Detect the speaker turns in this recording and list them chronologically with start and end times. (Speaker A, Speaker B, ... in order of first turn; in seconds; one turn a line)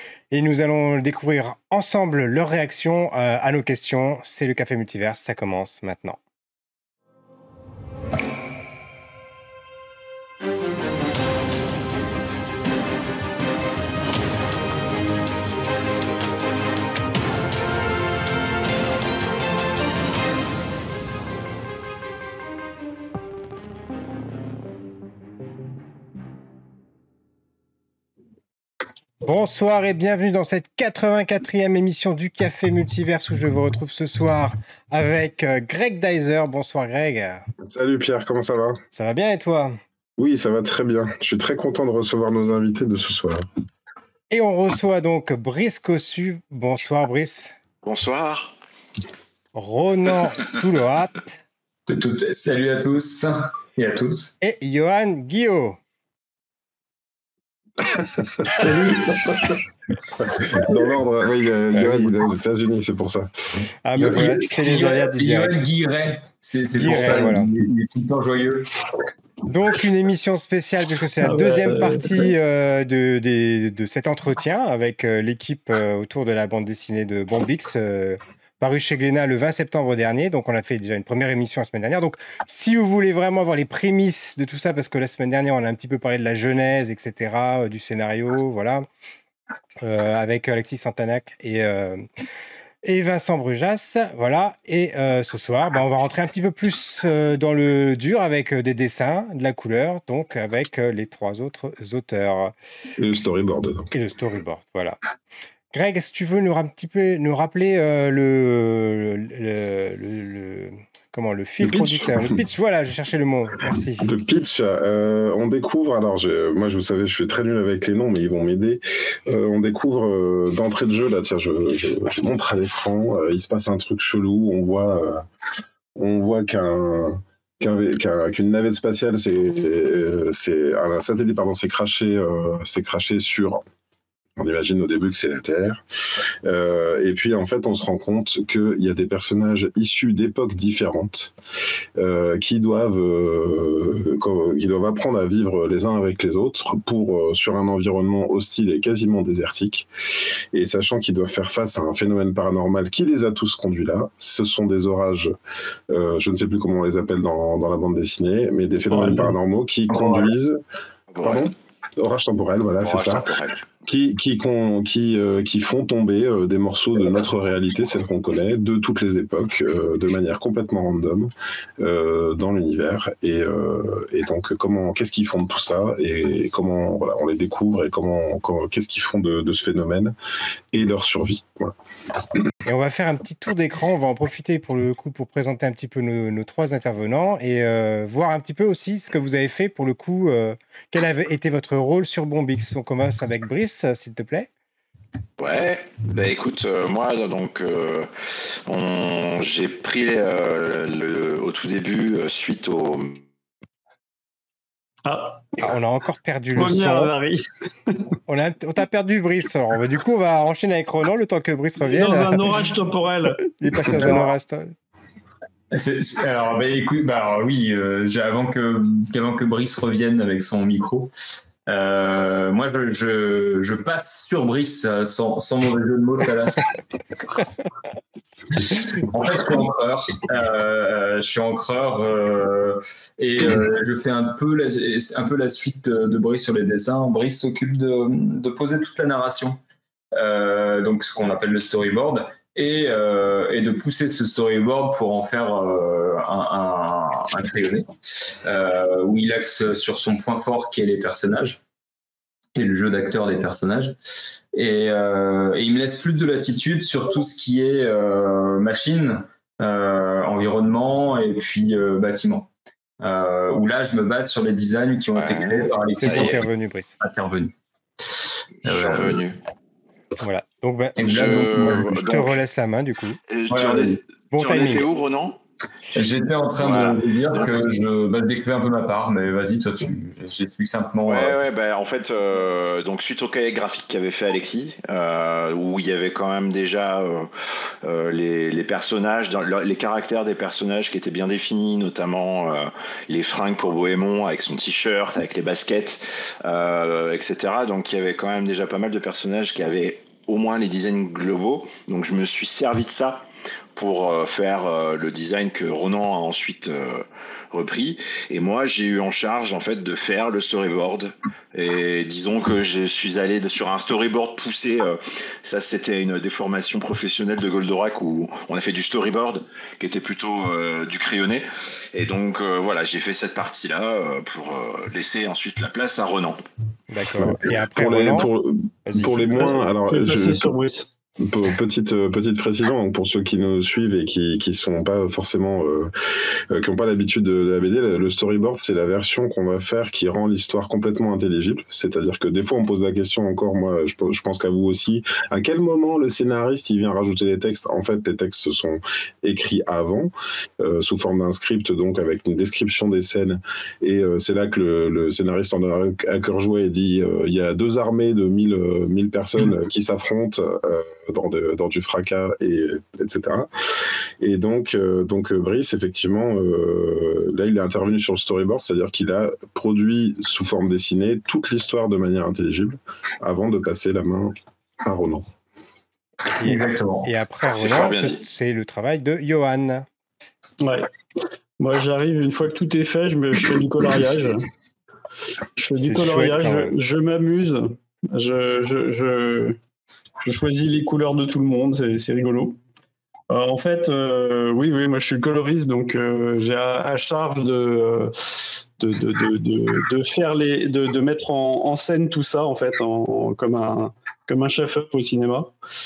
Speaker A: 0.3-6.2
Speaker A: 29.2-37.5
Speaker B: 37.6-38.8
Speaker A: 38.9-39.7
Speaker B: 40.2-43.5
Speaker A: 44.3-47.5
Speaker C: 47.8-48.5
Speaker A: 49.5-51.4
Speaker D: 51.9-54.3
Speaker A: 54.4-55.8
Speaker B: 58.0-59.1
Speaker B: 60.3-64.3
Speaker A: 61.7-62.1
Speaker A: 63.8-65.6
Speaker D: 64.2-68.7
Speaker A: 66.8-67.5
Speaker A: 69.5-88.8
Speaker E: 71.2-72.3
Speaker A: 89.8-92.0
Speaker A: 92.8-102.5
Speaker B: 103.0-103.9
Speaker A: 103.9-105.0
Speaker A: 105.7-114.1
Speaker B: 111.6-112.3
Speaker B: 114.0-125.2
Speaker B: 126.0-133.6
Speaker B: 134.4-135.8
Speaker B: 136.4-141.3
Speaker B: 142.0-149.9
Speaker B: 150.5-155.3
Speaker B: 155.9-160.6
Speaker D: 158.9-159.3
Speaker D: 159.9-160.3
Speaker C: 161.1-161.5
Speaker B: 161.2-163.3
Speaker C: 162.8-163.6
Speaker B: 163.8-180.1
Speaker B: 180.7-181.7
Speaker A: 182.6-194.5
Speaker C: 195.4-198.1
Speaker C: 198.7-203.2
Speaker E: 205.1-205.6
Speaker A: 205.6-207.1
Speaker E: 206.5-208.1
Speaker A: 208.3-212.6
Speaker E: 211.8-213.4
Speaker A: 213.6-214.7
Speaker D: 213.9-214.3
Speaker D: 215.7-221.1
Speaker D: 221.7-226.7
Speaker D: 228.5-239.6
Speaker D: 240.2-247.9
Speaker D: 248.4-251.6
Speaker D: 252.5-253.9
Speaker D: 254.5-262.5
Speaker D: 263.0-266.4
Speaker C: 265.1-266.3
Speaker A: 266.0-266.9
Speaker D: 267.0-267.5
Speaker D: 268.6-269.2
Speaker C: 268.6-269.4
Speaker A: 270.2-273.2
Speaker D: 271.0-271.9
Speaker C: 271.0-272.4
Speaker C: 273.3-275.4
Speaker D: 273.5-273.9
Speaker A: 274.3-274.8
Speaker D: 275.9-281.4
Speaker C: 276.6-277.5
Speaker C: 281.0-287.3
Speaker C: 287.8-326.4
Speaker A: 326.9-328.3
Speaker B: 327.2-330.5
Speaker A: 328.9-329.4
Speaker E: 329.9-330.9
Speaker B: 331.2-335.9
Speaker B: 336.5-363.5
Speaker B: 364.2-375.3
Speaker A: 376.4-379.9
Speaker D: 376.4-377.1
Speaker C: 377.4-378.2
Speaker E: 380.6-380.9
Speaker E: 381.6-384.5
Speaker E: 385.6-389.6
Speaker A: 385.8-386.8
Speaker E: 390.2-392.6
Speaker E: 393.3-405.5